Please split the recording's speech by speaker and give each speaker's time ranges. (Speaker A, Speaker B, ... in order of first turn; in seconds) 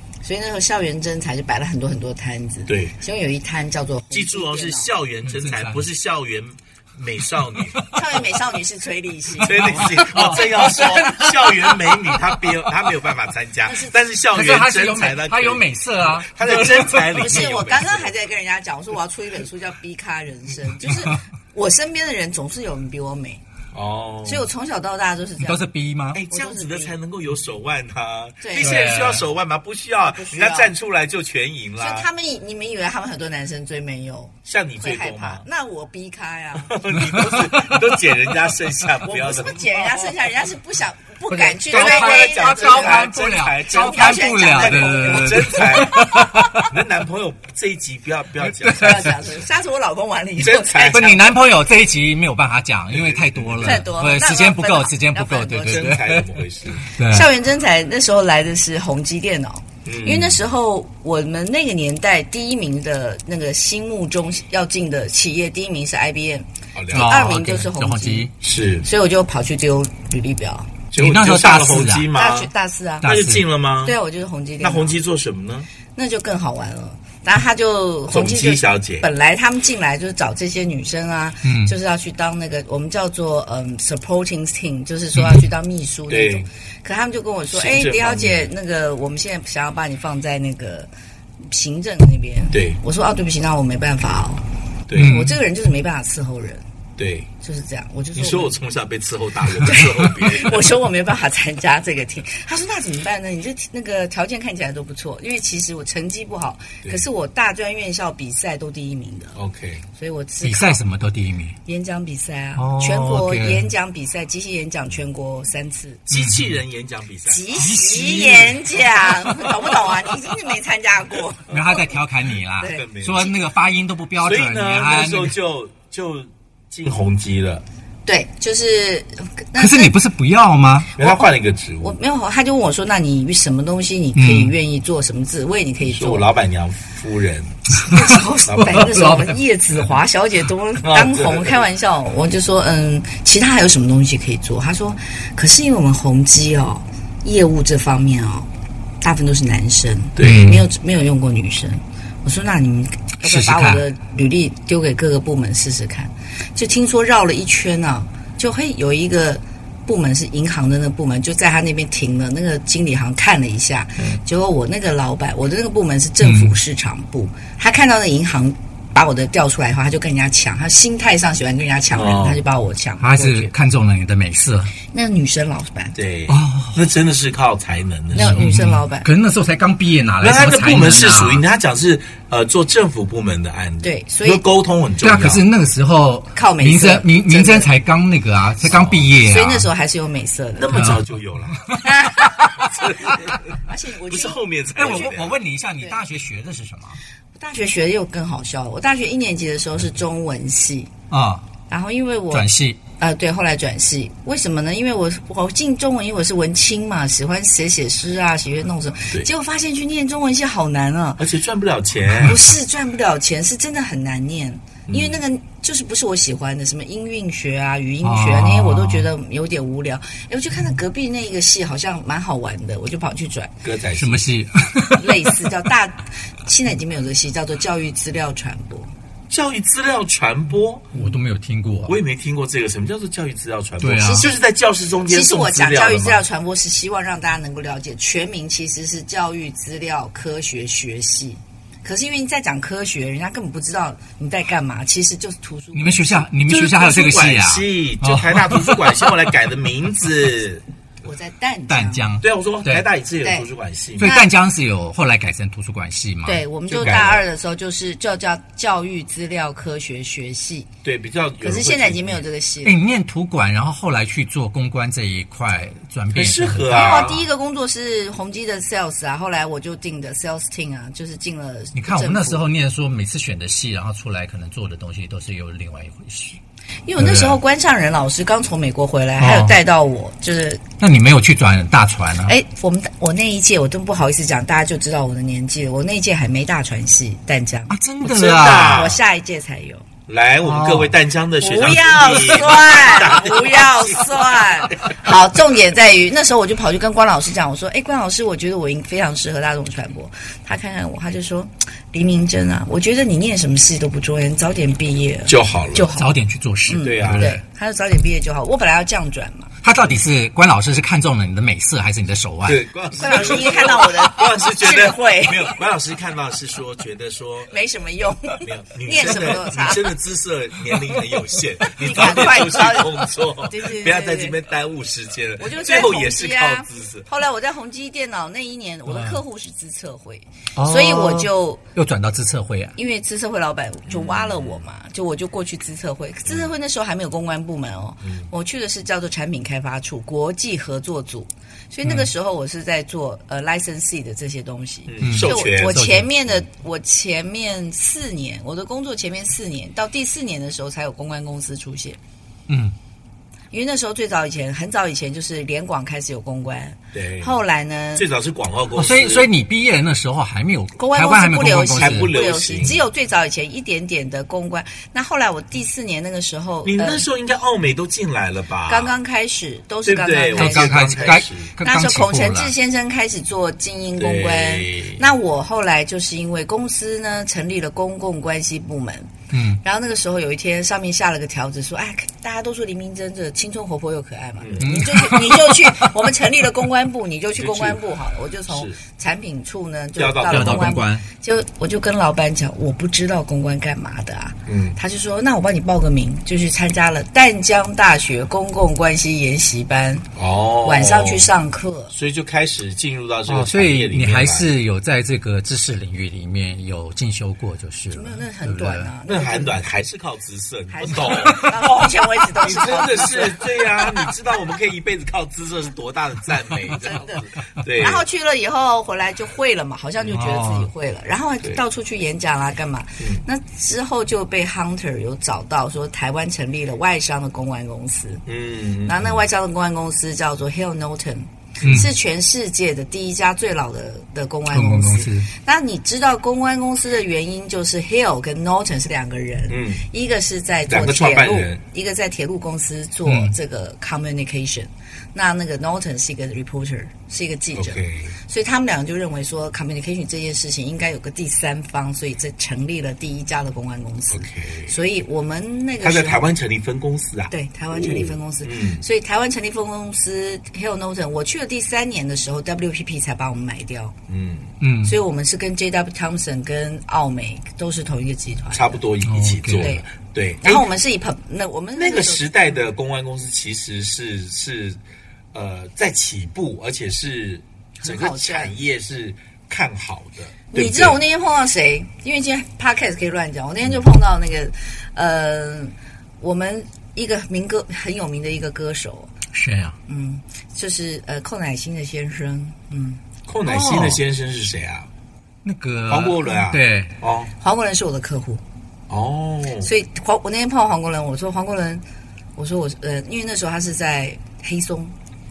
Speaker A: 0.2-4.9, 7.9-11.1, 13.7-13.9, 16.8-23.4, 24.2-25.6, 26.3-26.9, 28.4-28.9, 30.1-30.7, 31.8-37.1, 39.0-43.1, 43.7-46.0, 48.7-51.4, 53.6-56.0, 57.0-68.3, 68.8-70.7, 72.1-73.1, 73.8-75.0, 76.0-90.9, 91.5-94.4, 95.0-96.6, 97.4-98.5, 99.5-109.4, 110.0-110.8, 111.7-116.0, 117.3-121.8, 122.6-123.3, 128.1-129.9, 131.0-131.3, 131.8-136.3, 137.8-148.5, 149.0-173.5, 174.9-176.0, 178.1-179.1, 183.8-184.4, 186.3-187.7, 189.2-190.9, 191.8-195.1, 197.3-200.9, 201.7-211.3, 212.2-223.6, 225.0-228.9, 234.0-234.3, 235.1-246.3, 251.0-252.1, 254.0-254.3, 256.2-260.7, 261.4-262.8, 266.7-272.4, 276.9-280.6, 282.3-287.8, 288.6-289.9, 291.4-306.1, 306.7-309.5, 313.0-315.6, 317.5-319.9, 321.6-324.4, 325.4-331.6, 332.8-352.0, 353.5-358.1, 360.8-367.1, 368.7-400.1, 400.6-401.9, 407.9-409.6, 410.7-413.6, 416.7-428.2, 428.8-456.3, 457.3-464.0, 464.8-468.8, 469.6-469.9, 470.4-472.6, 477.8-478.5, 480.5-489.1, 489.9-493.0, 497.4-498.4, 499.6-501.8, 502.4-504.9
Speaker B: 2.7-3.0, 4.1-7.9, 9.4-18.1, 23.7-24.5, 26.1-32.1, 34.5-35.4, 36.7-40.2, 41.7-49.5, 50.4-51.2, 52.9-53.9, 55.7-56.9, 59.9-60.4, 66.8-67.3, 68.4-68.9, 70.9-72.5, 73.0-74.0, 74.6-75.7, 78.1-79.1, 86.1-86.5, 87.5-88.5, 92.5-92.8, 94.9-95.2, 97.0-97.3, 98.1-100.8, 109.3-109.8, 116.1-117.5, 121.5-123.3, 124.2-127.6, 131.0-132.0, 135.8-137.6, 140.8-141.7, 150.2-150.6, 171.9-172.4, 175.9-178.5, 180.2-185.4, 188.7-189.1, 190.6-191.7, 192.7-195.4, 211.2-212.4, 214.9-215.2, 223.6-224.2, 229.3-230.9, 231.9-236.2, 246.5-250.6, 252.2-254.1, 256.7-257.2, 260.8-262.2, 266.1-267.2, 288.0-289.0, 290.1-294.9, 305.3-305.9, 306.8-307.4, 309.8-310.1, 312.4-317.5, 318.4-327.1, 333.9-334.7, 336.3-336.5, 338.0-338.3, 344.9-345.9, 356.9-357.4, 357.9-359.3, 361.7-362.8, 366.6-368.9, 369.9-371.5, 374.0-375.0, 384.4-384.8, 387.4-387.8, 388.5-388.8, 390.0-390.8, 394.5-394.8, 400.2-401.3, 401.9-404.5, 409.1-411.6, 412.4-418.1, 428.3-429.2, 439.5-439.9, 440.7-441.6, 447.6-448.1, 454.1-454.8, 455.8-458.9, 464.1-464.5, 468.5-470.7, 471.8-474.8, 475.3-481.0, 493.3-494.9, 495.9-497.3, 498.9-499.7
Speaker C: 5.2-5.8, 9.4-12.2, 14.3-17.3, 25.4-26.2, 28.6-29.3, 41.3-46.8, 48.5-49.2, 50.9-57.3, 66.9-68.4, 71.0-72.1, 73.0-73.5, 81.4-81.8, 85.2-85.5, 95.0-95.4, 110.4-111.6, 112.6-113.7, 116.1-116.6, 117.5-119.5, 121.5-125.3, 129.6-130.9, 134.2-134.5, 137.9-139.4, 150.2-150.6, 153.2-153.8, 166.2-166.6, 173.0-174.7, 176.3-176.8, 178.1-181.4, 185.0-189.7, 190.7-191.9, 194.8-197.0, 201.1-201.5, 202.3-202.8, 218.0-219.1, 223.9-225.4, 230.9-232.0, 233.8-234.3, 245.8-249.2, 251.7-252.9, 254.0-257.0, 262.6-267.2, 271.8-276.4, 277.0-277.4, 279.2-279.6, 280.8-282.3, 287.7-288.9, 290.4-291.0, 292.1-292.7, 306.0-307.4, 309.6-313.7, 328.9-329.2, 330.6-332.8, 341.8-342.1, 345.0-346.1, 352.5-352.8, 358.8-362.2, 370.4-372.5, 379.3-379.6, 384.6-385.8, 390.3-391.1, 403.3-408.9, 411.0-411.9, 420.1-420.7, 431.6-431.9, 434.5-435.3, 443.1-443.4, 464.6-465.0, 469.0-469.7, 489.3-489.8, 493.4-494.0, 495.4-496.9